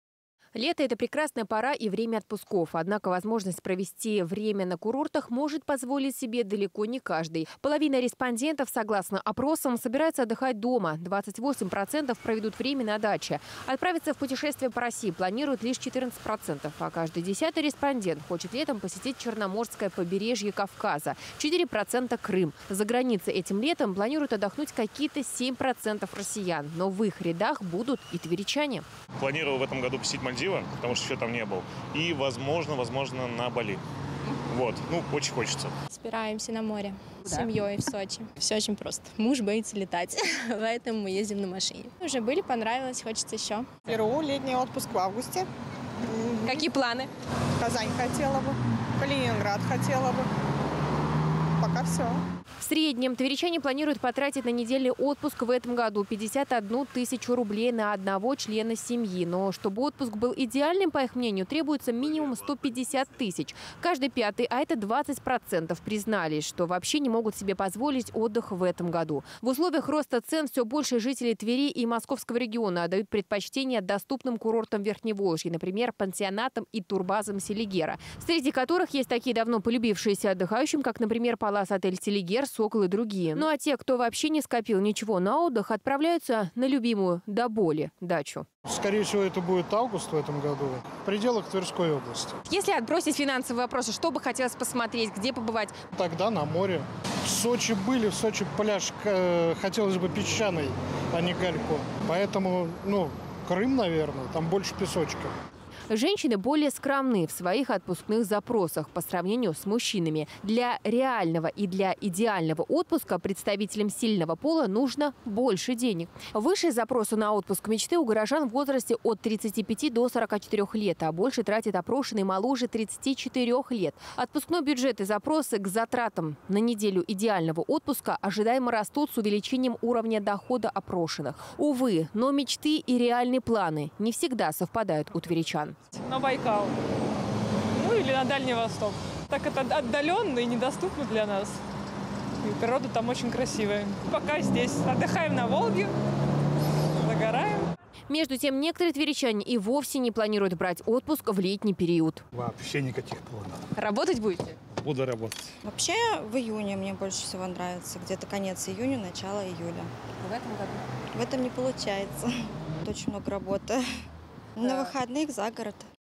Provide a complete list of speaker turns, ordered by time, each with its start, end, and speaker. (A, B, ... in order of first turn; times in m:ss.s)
0:00.5-0:28.8 A
0:29.2-0:33.8 B
0:34.5-0:35.7 B
0:35.9-0:43.9 C
0:37.2-0:37.5 A
0:43.8-0:45.5 D
0:46.1-0:46.7 D
0:46.5-0:47.1 A
0:47.6-0:50.3 D
0:51.6-0:52.2 D
0:52.6-1:28.4 A
1:28.6-1:32.4 E
1:32.5-1:35.8 A
1:35.9-1:45.3 E
1:45.9-2:15.8 A
2:16.0-2:16.8 F
2:17.7-2:21.6 F
2:22.4-2:25.9 F
2:27.0-2:27.7 F
2:28.1-2:32.2 A
2:32.3-2:33.6 G
2:33.8-2:34.6 A
2:34.8-2:35.5 G
2:35.6-2:39.9 H
2:40.2-2:40.8 A
2:41.1-2:43.8 H
2:44.6-2:45.9 H
2:44.6-2:45.0 A